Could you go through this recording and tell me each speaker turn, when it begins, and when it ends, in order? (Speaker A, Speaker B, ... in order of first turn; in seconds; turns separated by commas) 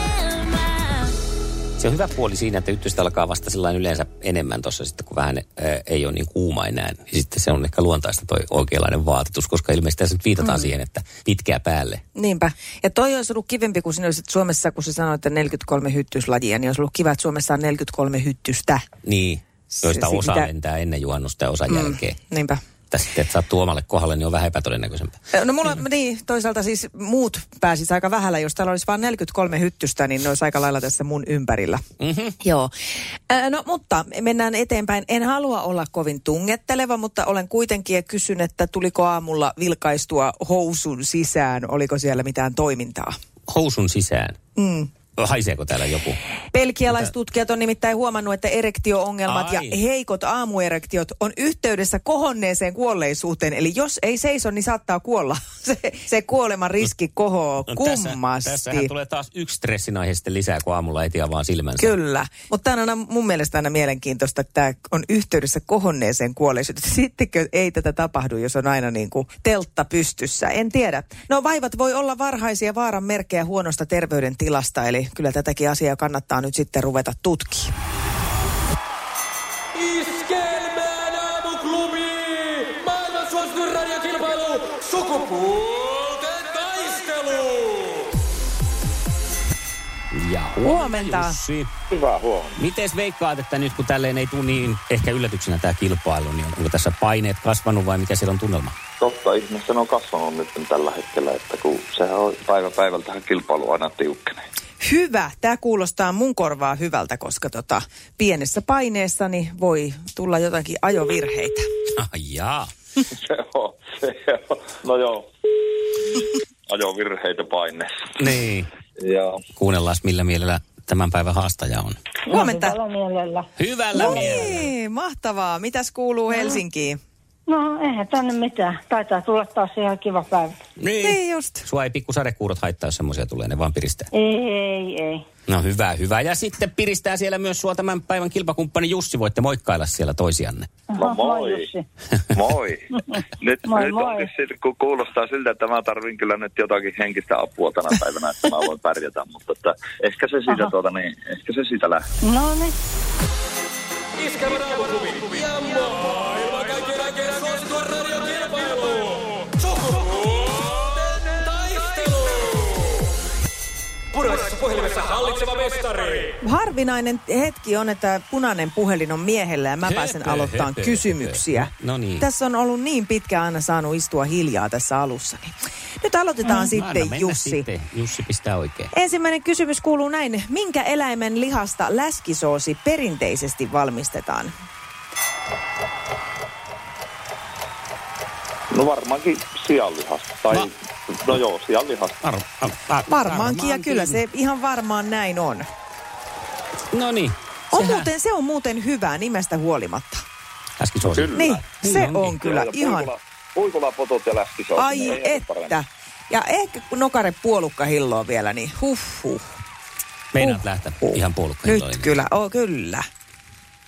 Speaker A: 1.8-12.0, Speaker B: 12.1-18.9, Speaker A: 19.0-22.1, Speaker B: 19.7-20.5, Speaker B: 21.7-22.6, Speaker A: 22.9-25.2, Speaker B: 25.3-31.8, Speaker A: 32.0-32.4, Speaker B: 32.4-32.7, Speaker B: 33.3-43.1, Speaker A: 43.5-44.4, Speaker B: 44.5-44.9, Speaker A: 45.1-46.2, Speaker B: 46.5-58.9, Speaker A: 49.3-49.8, Speaker A: 57.7-61.9, Speaker B: 61.8-77.7, Speaker C: 79.8-87.8, Speaker A: 90.1-91.7, Speaker B: 90.6-91.4, Speaker D: 91.9-92.6, Speaker A: 92.6-98.7, Speaker D: 99.0-104.4, Speaker B: 104.8-111.7, Speaker A: 112.0-112.7, Speaker D: 113.2-115.3, Speaker D: 116.7-117.9, Speaker A: 118.2-118.7, Speaker D: 119.0-119.4, Speaker A: 119.5-122.0, Speaker E: 122.3-123.5, Speaker B: 122.3-122.8, Speaker A: 123.5-124.7, Speaker B: 123.9-127.0, Speaker E: 124.0-124.4, Speaker E: 127.5-130.6, Speaker A: 130.8-134.1, Speaker B: 131.0-131.6, Speaker E: 134.1-135.2, Speaker A: 135.5-140.7, Speaker E: 140.9-141.8, Speaker D: 140.9-141.7, Speaker D: 142.3-152.0, Speaker E: 143.6-144.3, Speaker E: 150.5-150.7, Speaker E: 152.2-152.8, Speaker C: 154.2-162.5, Speaker C: 164.1-166.3, Speaker B: 166.4-177.7, Speaker A: 169.8-172.2, Speaker A: 176.5-178.9, Speaker B: 178.9-184.5, Speaker D: 188.7-192.2, Speaker A: 192.2-194.2, Speaker B: 193.1-195.6, Speaker A: 196.9-198.1, Speaker B: 197.7-200.2, Speaker A: 200.8-202.3, Speaker D: 201.2-201.6, Speaker B: 201.3-203.1, Speaker D: 202.4-205.8, Speaker B: 204.8-209.4, Speaker A: 210.3-212.1, Speaker B: 210.4-213.0